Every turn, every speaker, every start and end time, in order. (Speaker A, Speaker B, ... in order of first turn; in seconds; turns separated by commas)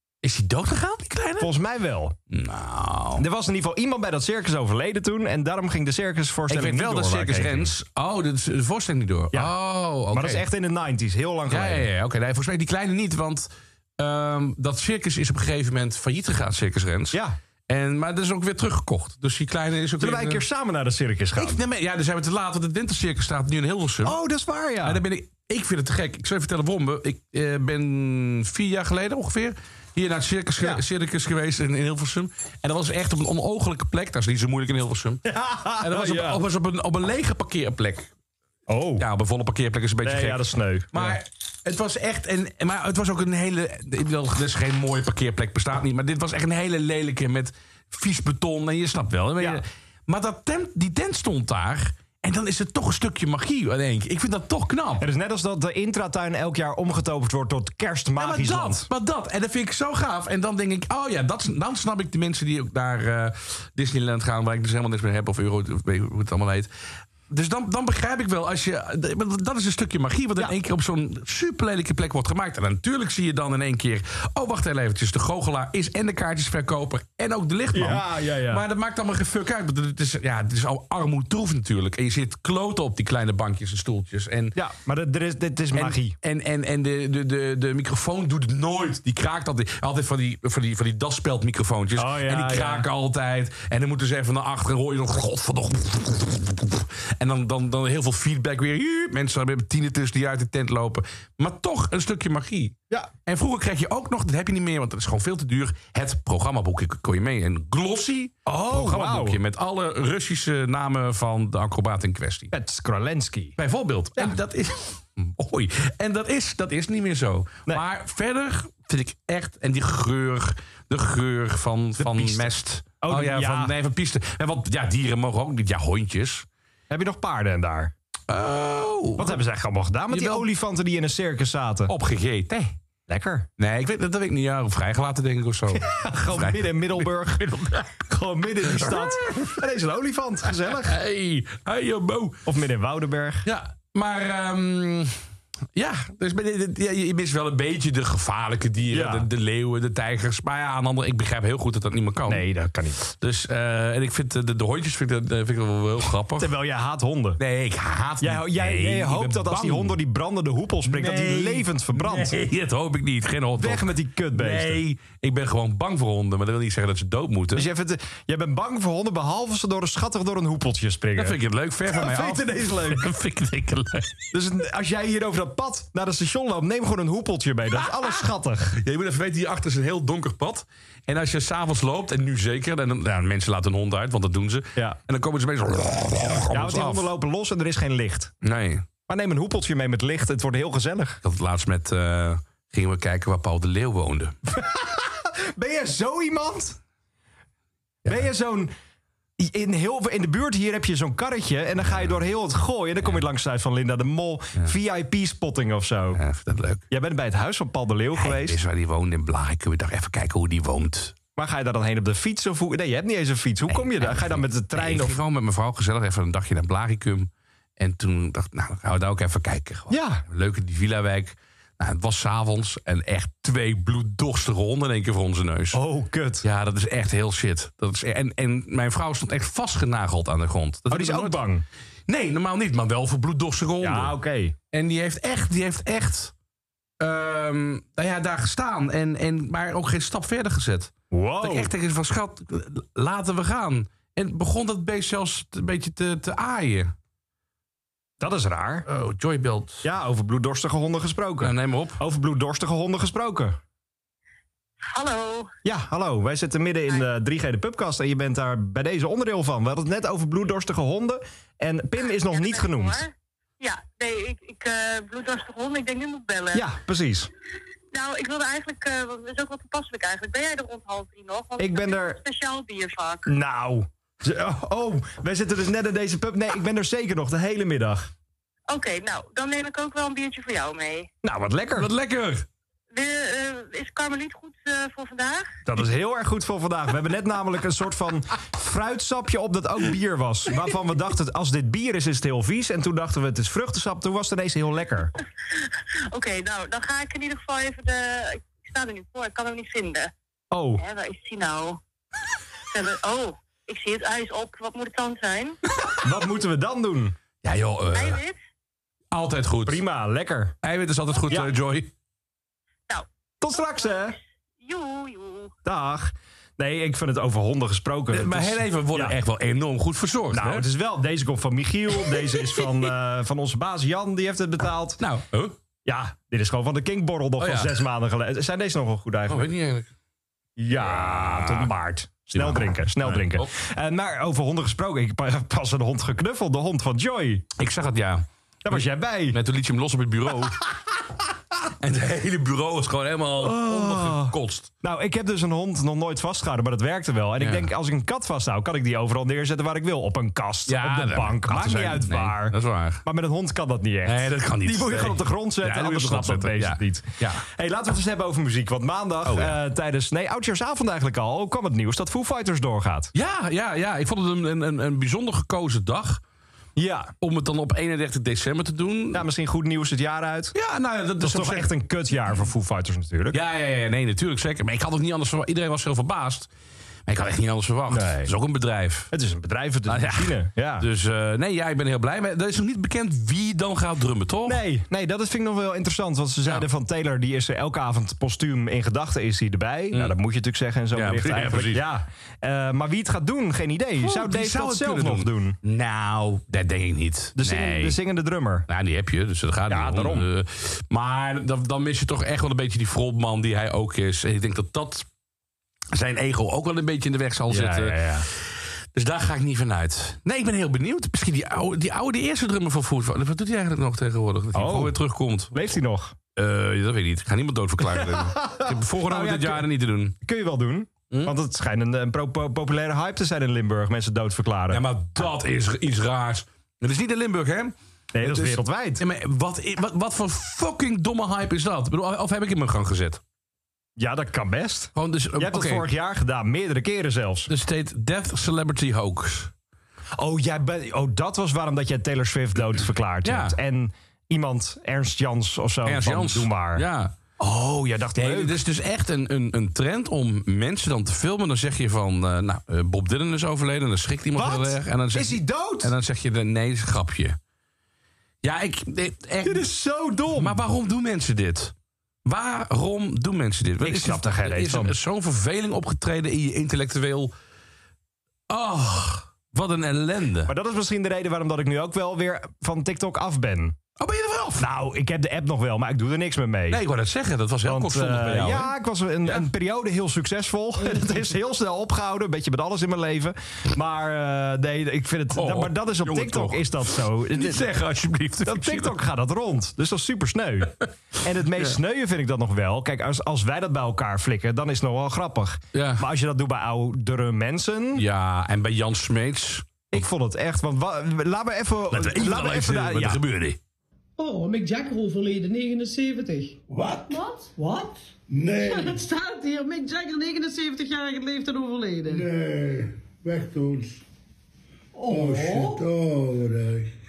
Speaker A: 0.2-1.5, Speaker B: 1.4-2.1, Speaker A: 2.3-3.2, Speaker B: 3.2-7.7, Speaker A: 6.5-10.4, Speaker B: 10.1-11.9, Speaker A: 11.5-20.4, Speaker B: 20.0-21.6, Speaker A: 21.4-24.2, Speaker B: 24.0-25.0, Speaker A: 24.8-35.2, Speaker B: 30.6-30.8, Speaker B: 35.2-36.4, Speaker A: 35.8-38.1, Speaker B: 38.7-39.0, Speaker A: 39.0-55.1, Speaker B: 40.0-41.2, Speaker B: 55.0-58.9, Speaker A: 58.1-66.7, Speaker A: 67.3-84.5, Speaker B: 77.7-78.6, Speaker B: 84.5-86.2, Speaker A: 85.7-102.7, Speaker B: 92.0-92.9, Speaker A: 103.2-112.5, Speaker B: 108.5-109.4, Speaker B: 112.5-113.5, Speaker A: 113.6-126.5, Speaker B: 122.0-122.5, Speaker B: 123.0-123.7, Speaker B: 126.9-127.9, Speaker A: 128.3-129.4, Speaker B: 129.2-131.9, Speaker A: 130.1-130.5, Speaker A: 131.9-132.8, Speaker B: 133.1-133.5, Speaker A: 133.6-138.0, Speaker B: 135.7-141.0, Speaker A: 138.7-139.5, Speaker A: 140.7-142.4, Speaker B: 142.4-143.4, Speaker A: 143.4-145.2, Speaker A: 145.7-152.4, Speaker B: 148.9-149.3, Speaker B: 152.3-153.0, Speaker A: 153.0-156.5, Speaker B: 156.4-157.4, Speaker A: 157.4-159.9, Speaker B: 158.2-162.4, Speaker A: 160.8-167.7, Speaker B: 163.6-164.8, Speaker B: 167.5-173.1, Speaker A: 171.1-174.2, Speaker B: 174.3-178.8, Speaker A: 177.7-187.1, Speaker B: 186.5-188.3, Speaker A: 188.4-188.8, Speaker B: 189.1-191.2, Speaker A: 191.2-194.3, Speaker B: 194.5-196.8, Speaker B: 198.1-198.7, Speaker B: 199.4-206.2, Speaker A: 206.1-206.8, Speaker B: 206.9-208.6, Speaker A: 208.1-211.1, Speaker B: 211.3-215.2, Speaker A: 213.7-225.8, Speaker B: 219.9-220.2, Speaker B: 225.7-226.4, Speaker A: 226.4-231.4, Speaker B: 230.9-231.7, Speaker A: 232.1-234.1, Speaker B: 233.8-234.6, Speaker A: 234.7-236.3, Speaker A: 237.0-246.9, Speaker B: 241.1-241.7, Speaker B: 248.2-248.8, Speaker A: 248.8-249.8, Speaker B: 249.8-253.6, Speaker A: 251.4-252.0, Speaker C: 254.8-255.5, Speaker B: 255.6-263.0, Speaker C: 262.2-266.7, Speaker B: 266.5-267.3, Speaker C: 267.9-273.3, Speaker B: 271.6-272.2, Speaker B: 273.2-278.1, Speaker C: 278.7-281.1, Speaker B: 281.2-281.9, Speaker A: 281.7-282.4, Speaker C: 282.9-285.6, Speaker B: 285.6-295.1, Speaker C: 295.5-300.1, Speaker B: 300.5-300.8, Speaker C: 300.8-301.8, Speaker C: 302.7-305.6, Speaker B: 305.9-307.1, Speaker A: 307.4-308.2, Speaker C: 307.9-308.4, Speaker A: 309.1-309.8, Speaker B: 309.6-310.6, Speaker A: 310.6-311.9, Speaker C: 312.9-315.5, Speaker B: 313.4-314.2, Speaker B: 315.6-319.2, Speaker A: 318.1-320.7, Speaker B: 320.3-325.0, Speaker A: 325.0-325.6, Speaker B: 325.9-329.5, Speaker A: 327.4-327.8, Speaker A: 329.3-329.9, Speaker B: 330.6-337.4, Speaker A: 330.8-331.7, Speaker A: 332.3-333.5, Speaker A: 337.6-340.6, Speaker B: 338.6-339.4, Speaker B: 340.4-340.8, Speaker A: 341.8-344.7, Speaker B: 343.4-363.1, Speaker A: 347.4-347.7, Speaker A: 350.7-353.0, Speaker A: 354.0-357.4, Speaker A: 359.2-359.6, Speaker A: 363.1-366.2, Speaker B: 366.8-367.1, Speaker A: 367.2-369.2, Speaker B: 369.1-370.5, Speaker A: 370.5-371.7, Speaker B: 371.2-373.4, Speaker A: 373.3-376.5, Speaker A: 377.1-379.1, Speaker B: 377.9-378.3, Speaker B: 379.1-380.9, Speaker A: 379.9-384.6, Speaker B: 384.4-395.6, Speaker A: 390.9-391.8, Speaker A: 394.0-398.0, Speaker B: 397.4-398.7, Speaker A: 398.7-405.1, Speaker B: 399.7-400.3, Speaker A: 405.9-415.5, Speaker B: 407.5-408.3, Speaker B: 414.5-415.0, Speaker B: 415.5-416.1, Speaker A: 416.4-420.1, Speaker B: 417.9-419.7, Speaker B: 420.2-424.8, Speaker A: 424.7-433.2, Speaker B: 428.1-429.0, Speaker B: 433.9-437.5, Speaker A: 434.9-435.9, Speaker A: 437.5-439.5, Speaker B: 440.1-446.9, Speaker A: 443.2-443.6, Speaker A: 445.8-447.1, Speaker B: 447.4-448.6, Speaker A: 448.1-457.4, Speaker B: 454.3-455.9, Speaker A: 458.4-459.7, Speaker B: 459.4-460.6, Speaker A: 460.3-461.7, Speaker A: 462.2-467.3, Speaker B: 463.8-464.9, Speaker A: 468.5-470.5, Speaker B: 470.5-473.8, Speaker A: 474.0-474.7, Speaker B: 474.6-476.8, Speaker A: 476.7-478.7, Speaker B: 477.6-487.7, Speaker A: 485.3-489.0, Speaker B: 488.4-498.1, Speaker A: 495.7-496.0, Speaker A: 497.9-500.0, Speaker B: 499.9-503.2, Speaker A: 501.9-503.6, Speaker D: 504.2-512.3, Speaker E: 506.7-507.2, Speaker E: 508.3-509.0, Speaker E: 512.1-514.0, Speaker D: 514.9-515.8, Speaker E: 515.1-516.9